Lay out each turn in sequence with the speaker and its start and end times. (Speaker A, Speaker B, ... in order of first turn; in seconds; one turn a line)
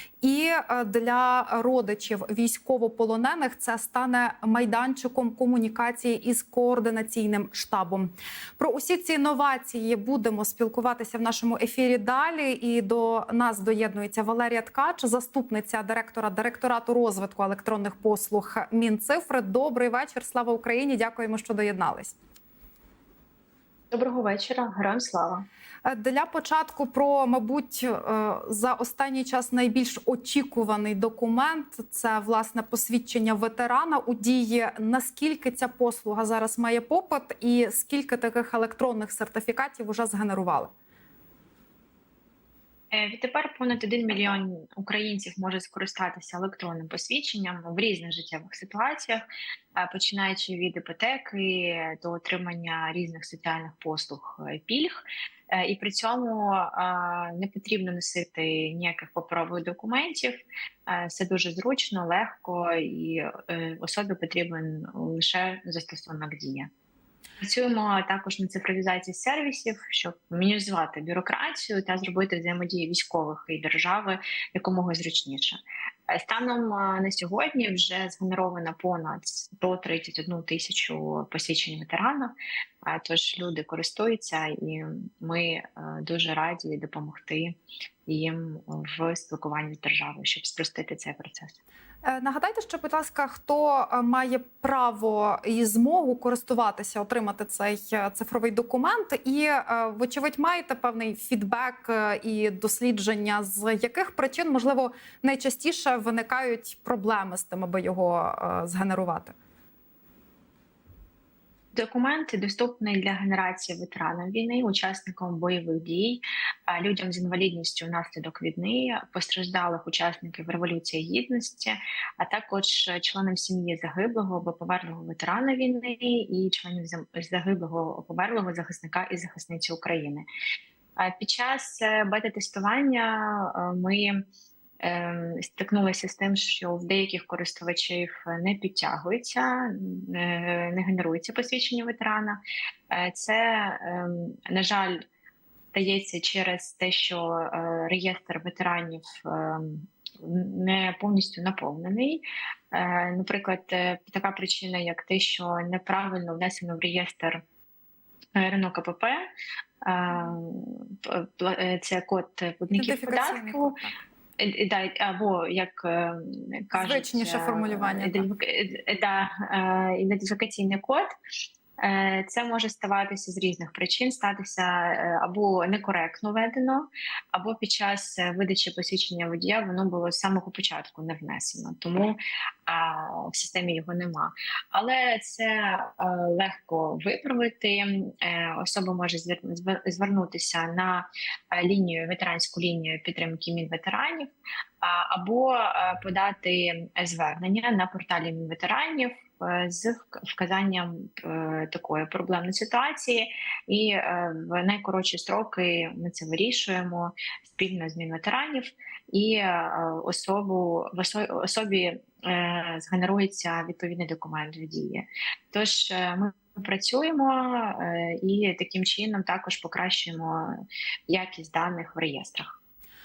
Speaker A: 0.2-22.1
Speaker B: 23.9-25.5
Speaker A: 25.9-40.7
Speaker B: 42.9-49.2
Speaker B: 49.8-66.7
Speaker B: 67.4-91.6
Speaker A: 92.0-109.4
Speaker B: 111.7-130.3
Speaker B: 131.0-134.2
Speaker B: 134.8-145.0
Speaker B: 145.7-157.4
Speaker B: 158.4-159.2
Speaker B: 159.8-163.8
Speaker A: 162.7-164.0
Speaker B: 164.4-171.1
Speaker A: 166.7-168.2
Speaker B: 171.8-222.6